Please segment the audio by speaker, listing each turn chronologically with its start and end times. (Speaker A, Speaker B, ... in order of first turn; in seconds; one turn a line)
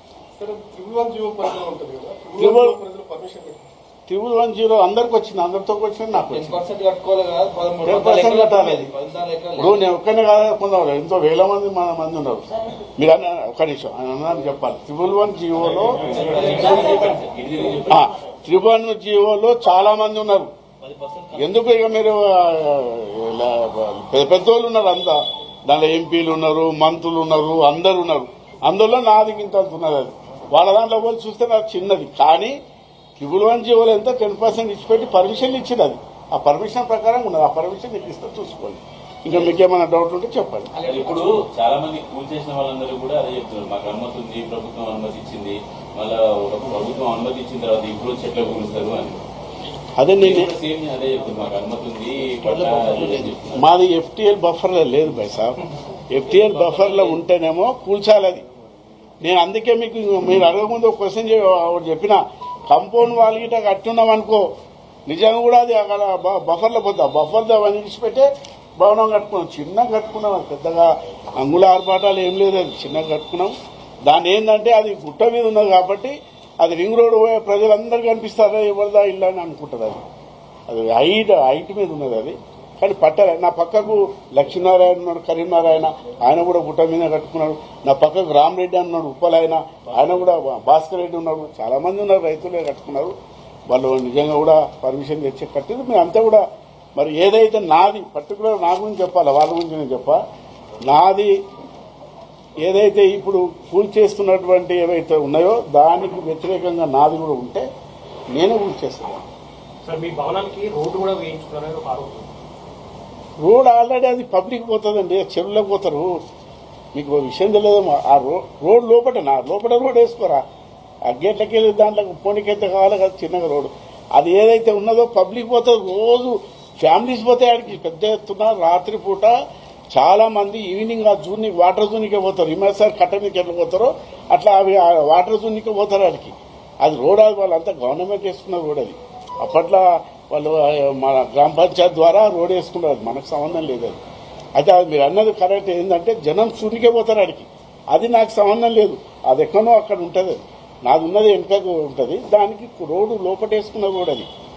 Speaker A: 0.4-3.7
Speaker B: 2.4-2.8
Speaker B: 4.1-6.6
Speaker C: 6.1-9.8
Speaker B: 7.8-8.9
Speaker B: 9.6-16.3
Speaker D: 15.9-18.1
Speaker C: 16.0-17.2
Speaker B: 17.9-20.5
Speaker C: 20.8-21.6
Speaker B: 21.4-32.5
Speaker B: 33.2-40.7
Speaker C: 40.8-41.3
Speaker D: 40.8-49.2
Speaker B: 50.0-50.5
Speaker D: 50.2-53.7
Speaker C: 52.4-53.3
Speaker B: 53.5-58.4
Speaker D: 56.2-57.2
Speaker B: 59.2-64.4
Speaker B: 65.1-68.3
Speaker B: 68.8-73.5
Speaker B: 74.0-80.0
Speaker B: 80.7-93.1
Speaker B: 93.7-96.4
Speaker B: 97.0-100.2
Speaker B: 100.9-101.3
Speaker B: 102.6-107.7
Speaker B: 108.3-109.2
Speaker E: 109.8-112.2
Speaker B: 113.4-116.2
Speaker B: 116.9-120.4
Speaker B: 121.1-129.3
Speaker B: 129.9-144.0
Speaker B: 144.6-154.3